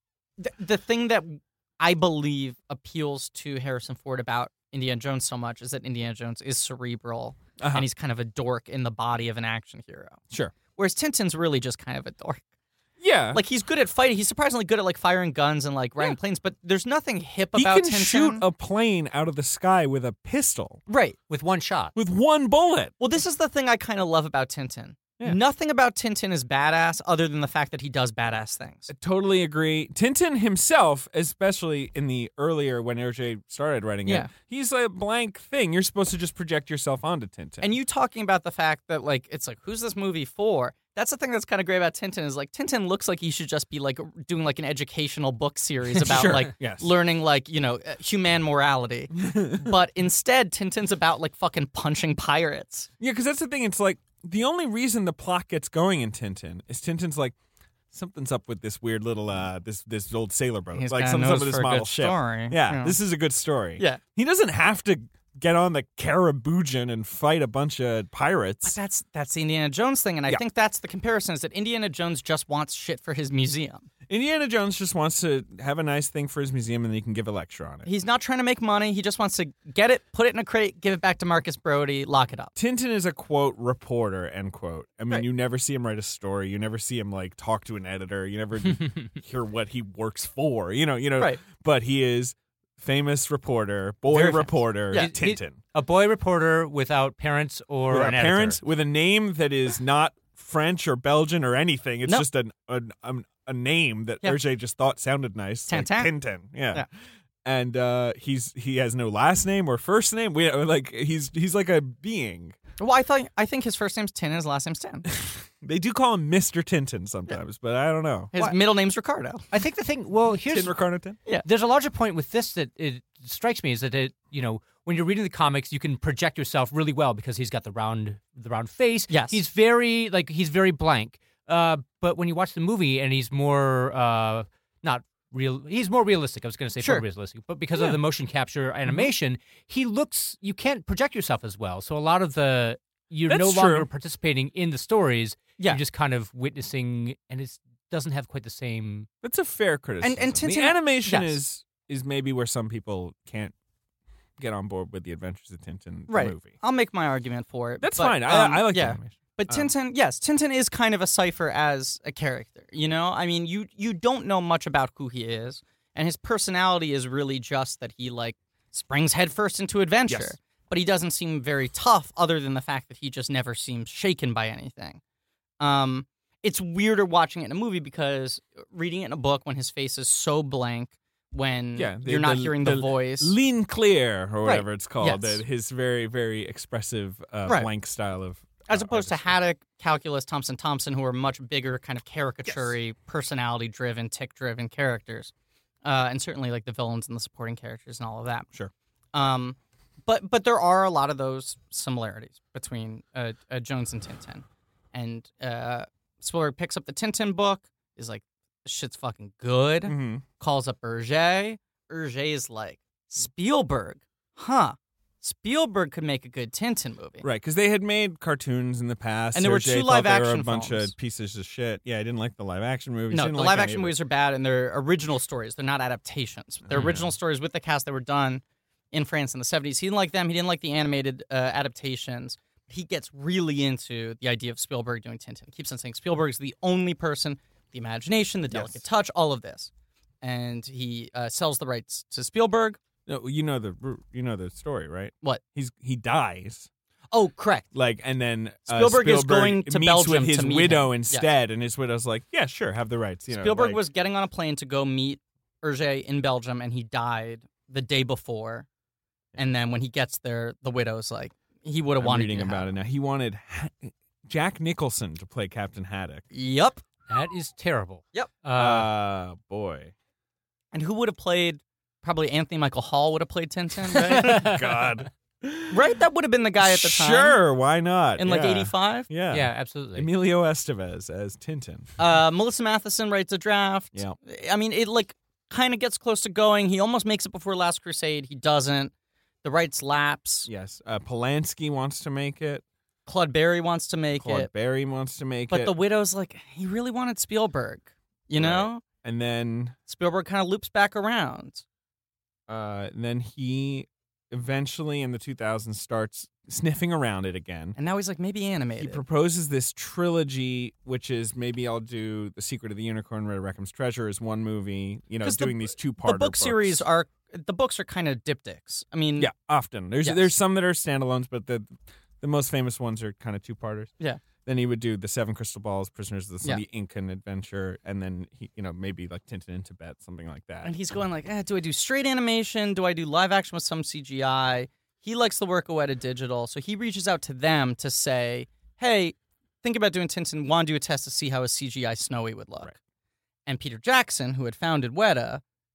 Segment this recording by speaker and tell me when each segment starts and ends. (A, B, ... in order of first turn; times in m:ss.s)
0:00.4-0:10.2 A
0:07.6-0:07.8 B
0:10.7-0:12.4 A
0:13.0-0:13.4 B
0:13.3-0:18.4 A
0:17.5-0:20.8 B
0:20.9-0:21.2 A
0:21.3-0:21.9 C
0:21.9-0:22.9 B
0:23.0-0:28.9 A
0:28.9-0:37.7 B
0:37.6-0:52.9 A
0:46.0-0:46.9 B
0:49.2-0:49.7 B
0:53.0-0:57.3 B
0:57.9-1:08.8 B
1:00.7-1:03.0 A
1:08.6-1:13.9 A
1:14.1-1:17.9 B
1:17.8-1:22.5 A
1:22.6-1:35.6 B
1:34.1-1:35.1 A
1:34.9-1:38.6 C
1:37.9-1:46.8 B
1:45.7-1:46.1 A
1:47.4-1:52.6 B
1:52.8-1:55.1 A
1:55.1-1:58.3 B
1:58.3-1:59.4 A
1:59.5-2:00.7 C
2:00.4-2:01.2 B
2:01.3-2:29.1 C
2:09.1-2:09.4 A
2:23.3-2:23.9 B
2:29.2-2:33.5 B
2:30.0-2:31.4 A
2:34.4-2:36.6 B
2:36.1-2:55.0 A
2:37.8-2:39.7 B
2:50.1-2:50.3 B
2:55.6-3:03.4 A
3:01.8-3:09.4 B
3:04.4-3:05.4 A
3:08.7-3:15.3 A
3:12.4-3:12.7 B
3:15.8-3:18.5 A
3:19.1-3:37.2 A
3:29.8-3:30.2 B
3:37.2-3:43.9 B
3:39.3-3:40.9 A
3:43.1-3:59.7 A
3:46.7-3:47.1 B
3:58.5-3:58.8 B
4:00.2-4:02.8 A
4:03.1-4:06.7 B
4:07.1-4:07.7 A
4:07.7-4:13.8 B
4:08.7-4:11.3 A
4:13.3-4:18.7 A
4:19.4-4:22.7 A
4:22.0-4:26.2 B
4:26.3-4:26.8 A
4:27.1-4:28.9 C
4:28.5-4:29.9 B
4:30.7-4:34.4 A
4:33.9-4:35.8 B
4:34.2-4:34.6 C
4:35.7-4:37.4 A
4:36.6-4:41.9 B
4:38.2-4:39.1 A
4:39.3-4:40.1 C
4:42.0-4:50.5 A
4:50.5-4:52.6 B
4:53.0-4:54.5 A
4:54.2-4:55.7 B
4:55.5-4:58.8 A
4:58.4-4:59.8 B
4:59.9-5:01.6 A
5:02.5-5:07.8 B
5:07.8-5:09.0 A
5:08.8-5:16.8 B
5:15.2-5:19.3 A
5:19.2-5:23.9 B
5:20.0-5:20.3 A
5:24.4-5:30.7 B
5:30.6-5:42.7 A
5:43.5-5:45.4 A